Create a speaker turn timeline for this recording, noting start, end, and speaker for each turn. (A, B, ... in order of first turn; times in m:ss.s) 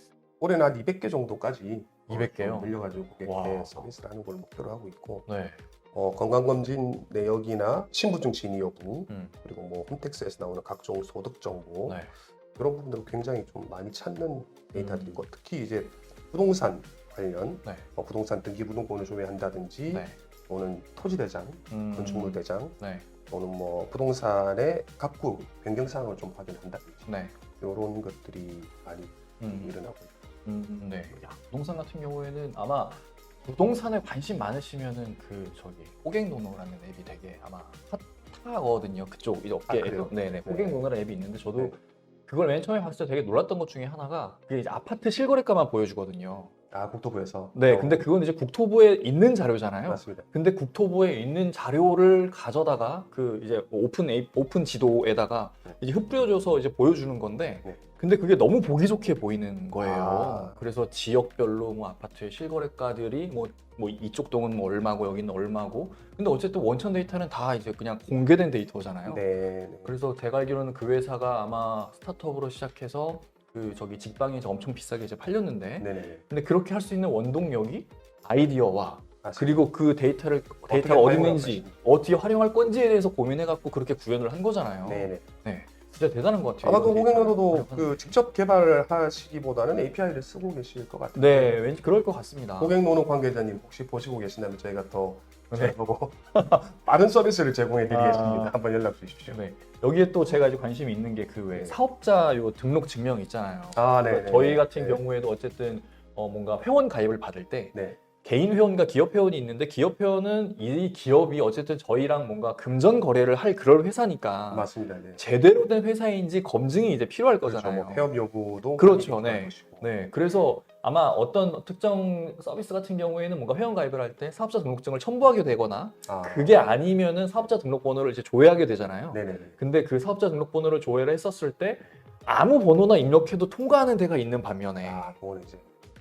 0:00.4-0:05.2 A
0:02.1-0:03.9 B
0:05.3-0:05.6 B
0:05.9-0:12.0 A
0:12.6-0:30.2 A
0:14.8-0:15.2 B
0:19.9-0:20.2 B
0:21.7-0:23.0 B
0:27.0-0:27.3 B
0:29.4-0:29.7 B
0:30.4-0:41.8 B
0:39.7-0:40.8 A
0:42.3-0:46.5 B
0:46.7-0:48.1 A
0:47.5-1:09.2 B
0:49.9-0:50.2 A
0:59.8-1:00.6 A
1:09.1-1:09.9 A
1:09.8-1:28.1 B
1:15.8-1:16.2 A
1:19.2-1:19.6 A
1:20.7-1:21.7 A
1:24.8-1:25.2 A
1:26.6-1:31.6 A
1:31.1-1:32.7 B
1:32.6-1:39.4 A
1:35.5-1:35.8 B
1:36.4-1:36.6 B
1:37.9-1:38.5 B
1:39.3-1:58.0 B
1:43.7-1:45.0 A
1:54.5-1:55.2 A
1:57.4-1:59.9 A
1:58.8-2:15.1 B
2:06.0-2:06.6 A
2:09.1-2:09.6 A
2:14.8-2:15.6 A